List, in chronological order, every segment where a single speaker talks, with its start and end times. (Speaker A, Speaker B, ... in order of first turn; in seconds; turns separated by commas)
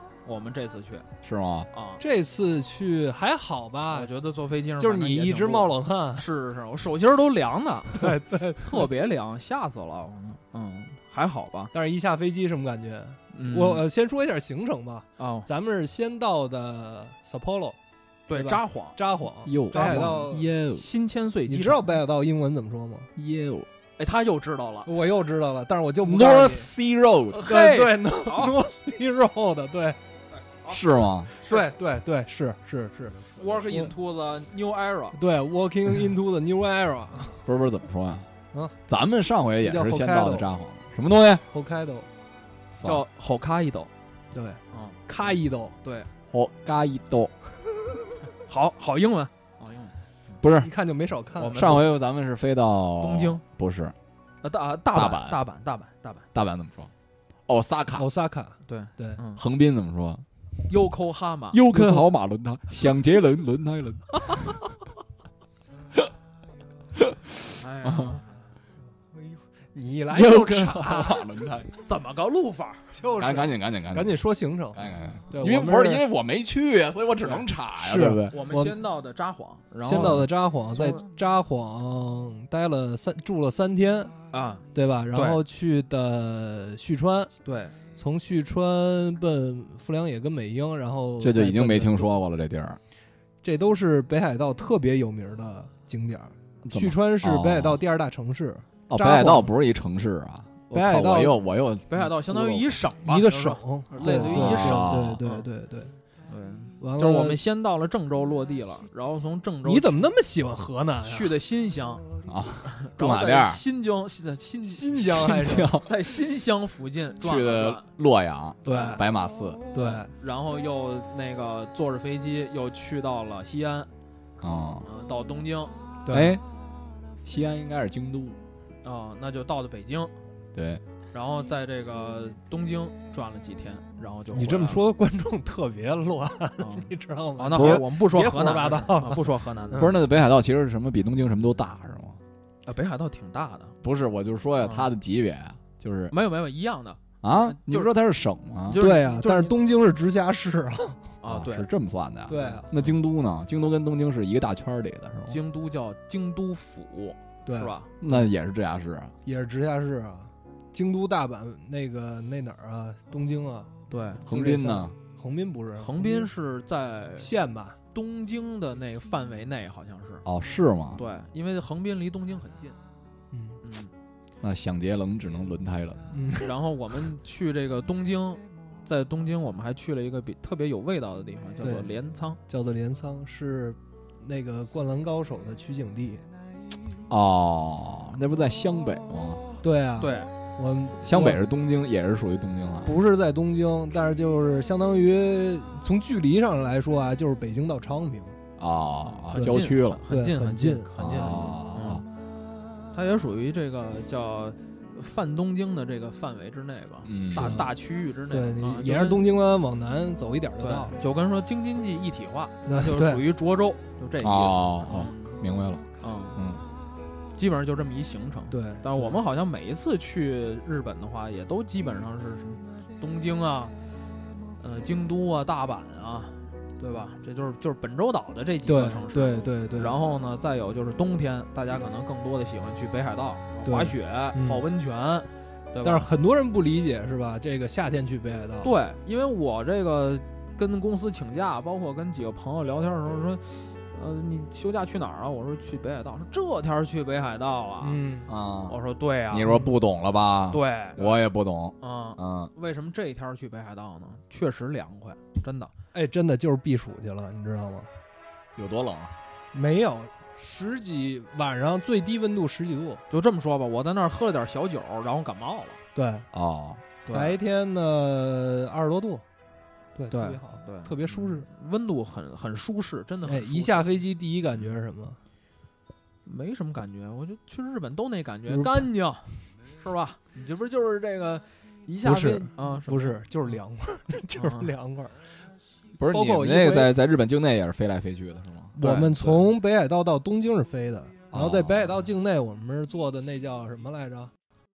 Speaker A: 0.2-1.1, Speaker B: 1.2-1.7, Speaker A: 1.7-2.0, Speaker C: 2.0-4.1, Speaker A: 3.9-11.7, Speaker C: 4.8-6.3, Speaker C: 7.9-8.9, Speaker C: 11.7-17.8, Speaker A: 13.3-13.8, Speaker A: 15.2-15.5, Speaker A: 18.3-19.0, Speaker C: 18.3-20.5, Speaker B: 19.4-20.9, Speaker A: 19.7-21.9, Speaker C: 21.5-23.1, Speaker B: 23.1-23.7, Speaker A: 24.0-24.9, Speaker C: 24.9-26.7, Speaker B: 26.0-27.4, Speaker A: 27.3-28.6, Speaker C: 27.4-30.0, Speaker A: 30.3-30.8, Speaker B: 30.7-31.3, Speaker A: 31.4-31.7, Speaker C: 31.4-33.9, Speaker A: 33.4-35.2, Speaker C: 35.1-37.4, Speaker B: 37.5-38.3, Speaker B: 38.9-41.4, Speaker C: 39.6-40.5, Speaker C: 41.5-42.1, Speaker B: 42.8-43.0, Speaker A: 42.8-43.9, Speaker C: 44.3-45.8, Speaker A: 44.7-45.0, Speaker A: 45.8-46.1, Speaker B: 46.3-47.3, Speaker A: 48.4-49.9, Speaker B: 50.4-50.7, Speaker C: 50.4-51.7, Speaker A: 51.4-51.9, Speaker B: 51.5-53.9, Speaker A: 53.0-53.4, Speaker A: 54.4-56.2, Speaker B: 54.9-55.4, Speaker B: 56.3-56.9, Speaker B: 57.5-58.1, Speaker C: 57.9-59.2, Speaker A: 58.6-59.4, Speaker B: 59.4-60.2, Speaker A: 60.7-61.6, Speaker B: 61.5-64.6, Speaker C: 61.7-62.1, Speaker B: 67.0-68.1, Speaker A: 67.6-68.2, Speaker C: 69.1-71.3, Speaker B: 70.1-71.7, Speaker A: 71.8-72.9, Speaker C: 72.9-76.0, Speaker B: 73.2-74.2, Speaker B: 74.7-78.3, Speaker C: 77.8-78.8, Speaker A: 78.3-81.0, Speaker C: 79.8-84.1, Speaker A: 84.3-85.4, Speaker C: 84.7-87.3, Speaker A: 87.4-87.8, Speaker C: 88.0-92.1, Speaker B: 91.2-92.8, Speaker C: 93.4-99.5, Speaker B: 96.6-97.8, Speaker B: 98.9-102.7, Speaker C: 100.7-101.4, Speaker A: 101.9-105.5, Speaker C: 103.0-105.9, Speaker B: 104.0-105.2, Speaker A: 106.3-110.0, Speaker C: 106.8-107.4, Speaker C: 109.6-111.3, Speaker A: 111.0-112.0, Speaker B: 112.2-113.6, Speaker A: 112.6-115.1, Speaker C: 114.7-115.8, Speaker B: 114.9-115.9, Speaker A: 115.7-117.9, Speaker B: 117.2-119.6, Speaker A: 118.6-119.0, Speaker C: 118.6-119.0, Speaker C: 119.7-120.1, Speaker A: 119.7-123.9, Speaker B: 124.4-124.9, Speaker A: 124.8-125.7, Speaker C: 126.0-126.3, Speaker B: 126.1-126.4, Speaker B: 127.2-128.4, Speaker A: 128.8-130.1, Speaker B: 130.5-130.8, Speaker A: 131.1-134.8, Speaker C: 134.3-140.0, Speaker A: 136.6-139.9, Speaker B: 137.5-137.8, Speaker B: 139.7-142.2, Speaker A: 142.7-143.8, Speaker B: 143.8-146.1, Speaker A: 144.6-144.9, Speaker A: 146.1-147.9, Speaker B: 147.2-148.8, Speaker A: 148.7-149.6, Speaker C: 148.7-151.0, Speaker A: 151.2-151.7, Speaker B: 151.3-155.4, Speaker C: 152.3-152.7, Speaker A: 152.4-152.9, Speaker A: 155.3-157.9, Speaker C: 157.4-158.3, Speaker B: 158.0-159.1, Speaker C: 159.2-163.7, Speaker A: 163.9-164.2, Speaker B: 164.2-164.9, Speaker C: 164.2-166.3, Speaker A: 165.8-167.3, Speaker C: 167.2-167.8, Speaker A: 167.9-170.2, Speaker B: 170.2-171.0, Speaker A: 170.9-172.8, Speaker C: 173.3-173.6, Speaker A: 173.6-173.9, Speaker B: 174.4-176.0, Speaker C: 176.1-176.5, Speaker A: 176.4-182.4, Speaker C: 181.6-181.9, Speaker C: 182.5-186.2, Speaker B: 187.1-189.4, Speaker C: 189.6-191.4, Speaker A: 190.0-190.3, Speaker B: 191.0-193.0, Speaker C: 192.8-198.3, Speaker B: 198.6-200.0, Speaker A: 199.0-202.0, Speaker C: 199.3-201.4, Speaker B: 201.0-202.0, Speaker A: 202.9-209.3, Speaker B: 207.0-207.6, Speaker C: 207.3-210.9, Speaker A: 210.6-215.4, Speaker C: 212.7-213.3, Speaker B: 214.2-215.8, Speaker A: 216.0-216.4, Speaker B: 216.3-216.6, Speaker A: 217.3-223.7, Speaker C: 218.5-219.2, Speaker A: 224.6-236.1, Speaker C: 228.7-229.9, Speaker C: 233.6-234.6, Speaker C: 235.8-238.7, Speaker A: 238.6-248.0, Speaker C: 247.8-248.3, Speaker B: 248.3-248.8, Speaker A: 248.7-249.6, Speaker B: 249.3-252.5, Speaker A: 250.5-251.2, Speaker A: 251.8-255.7, Speaker C: 255.9-257.9, Speaker B: 258.6-259.1, Speaker C: 259.5-263.0, Speaker A: 263.1-265.8, Speaker C: 265.9-266.3, Speaker B: 266.3-266.8, Speaker A: 267.1-267.4, Speaker C: 267.1-269.2, Speaker C: 269.9-271.5, Speaker A: 270.1-273.9, Speaker C: 273.2-275.2, Speaker A: 276.2-283.5, Speaker C: 278.5-278.9, Speaker C: 282.0-285.3, Speaker A: 284.3-284.7, Speaker B: 286.0-289.5, Speaker C: 286.1-286.9, Speaker C: 288.8-294.3, Speaker B: 291.3-292.0